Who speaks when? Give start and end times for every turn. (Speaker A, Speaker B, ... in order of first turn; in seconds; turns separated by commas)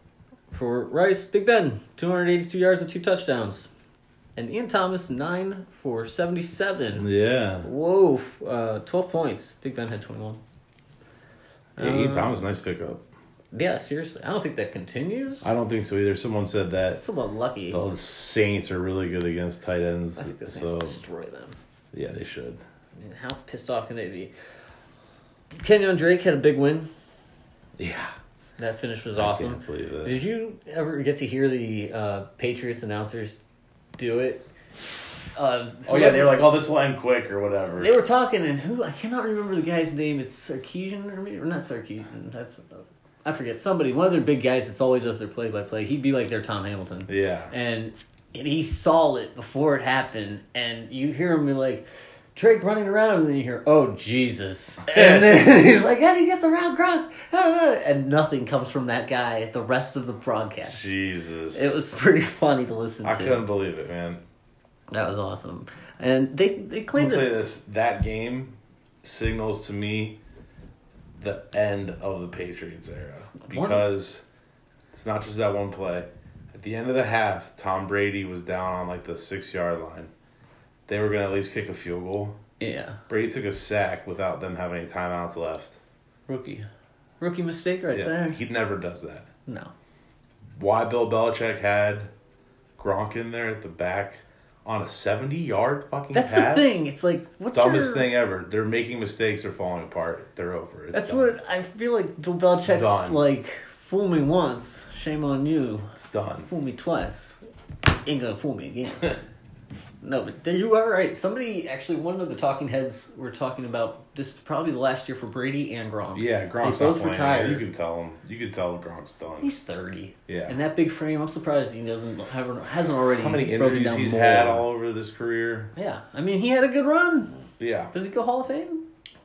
Speaker A: 0.5-3.7, Speaker A: 4.3-7.1, Speaker B: 7.0-7.7, Speaker A: 7.6-10.4, Speaker A: 11.8-12.4, Speaker B: 11.8-13.0, Speaker A: 13.5-15.5, Speaker B: 15.4-17.0, Speaker A: 16.9-17.8, Speaker B: 17.7-21.0, Speaker A: 20.2-21.6, Speaker B: 21.9-22.6, Speaker A: 23.0-24.3, Speaker A: 25.6-26.9, Speaker B: 27.8-28.1, Speaker A: 28.6-33.4, Speaker B: 29.1-30.2, Speaker A: 34.0-34.5, Speaker A: 35.4-36.4, Speaker B: 35.9-37.9, Speaker A: 37.8-60.9, Speaker B: 47.1-47.5, Speaker B: 54.9-55.4, Speaker B: 60.7-61.8, Speaker A: 61.5-63.5, Speaker B: 63.0-64.2, Speaker A: 64.9-67.3, Speaker B: 67.0-70.2, Speaker B: 71.2-74.2, Speaker A: 73.4-73.8, Speaker B: 74.9-80.1, Speaker B: 80.9-82.4, Speaker A: 82.6-83.0, Speaker B: 83.1-85.8, Speaker A: 86.3-86.7, Speaker A: 87.2-88.4, Speaker B: 87.9-89.3, Speaker A: 89.5-89.7, Speaker B: 90.5-92.1, Speaker B: 92.8-96.8, Speaker A: 96.1-98.1, Speaker B: 97.5-101.3, Speaker A: 100.9-105.9, Speaker B: 102.5-103.2, Speaker B: 106.0-106.5, Speaker A: 106.5-107.3, Speaker A: 107.9-109.2, Speaker A: 110.0-117.6, Speaker B: 116.1-119.5, Speaker A: 119.4-124.7, Speaker B: 120.3-120.5, Speaker B: 123.2-125.7, Speaker A: 125.7-128.8, Speaker B: 127.6-127.9